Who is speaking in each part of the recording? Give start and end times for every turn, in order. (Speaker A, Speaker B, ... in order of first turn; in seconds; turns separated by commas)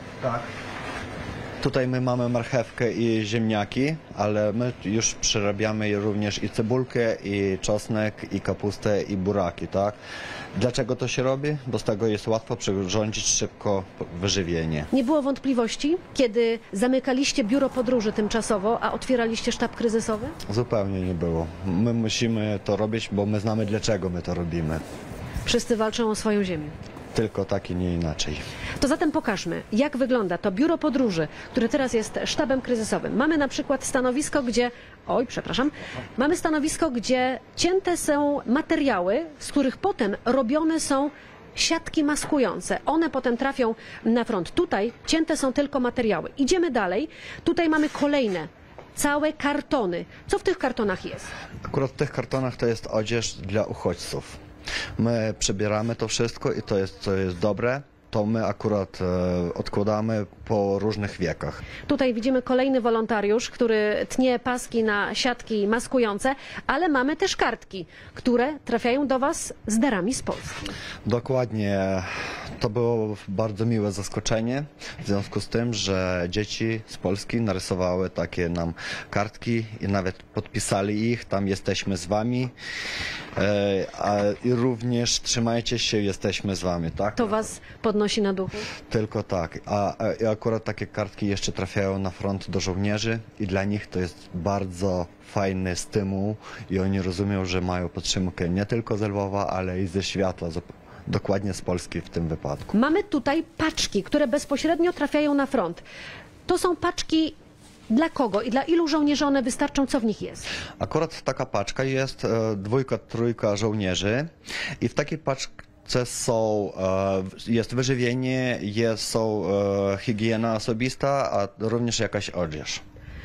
Speaker A: 0.2-0.5, Speaker A: 1.6-10.0, Speaker A: 10.6-14.9, Speaker B: 14.9-20.4, Speaker A: 20.5-24.8, Speaker B: 25.5-26.8, Speaker A: 27.1-28.4, Speaker B: 28.8-51.3, Speaker A: 51.6-54.4, Speaker A: 55.0-61.6, Speaker B: 61.9-70.7, Speaker A: 71.0-82.5, Speaker A: 83.4-87.5, Speaker B: 87.2-88.7, Speaker A: 88.9-102.7, Speaker B: 102.7-105.8, Speaker B: 106.5-107.3, Speaker B: 107.9-110.5, Speaker A: 110.8-114.3, Speaker A: 114.8-122.8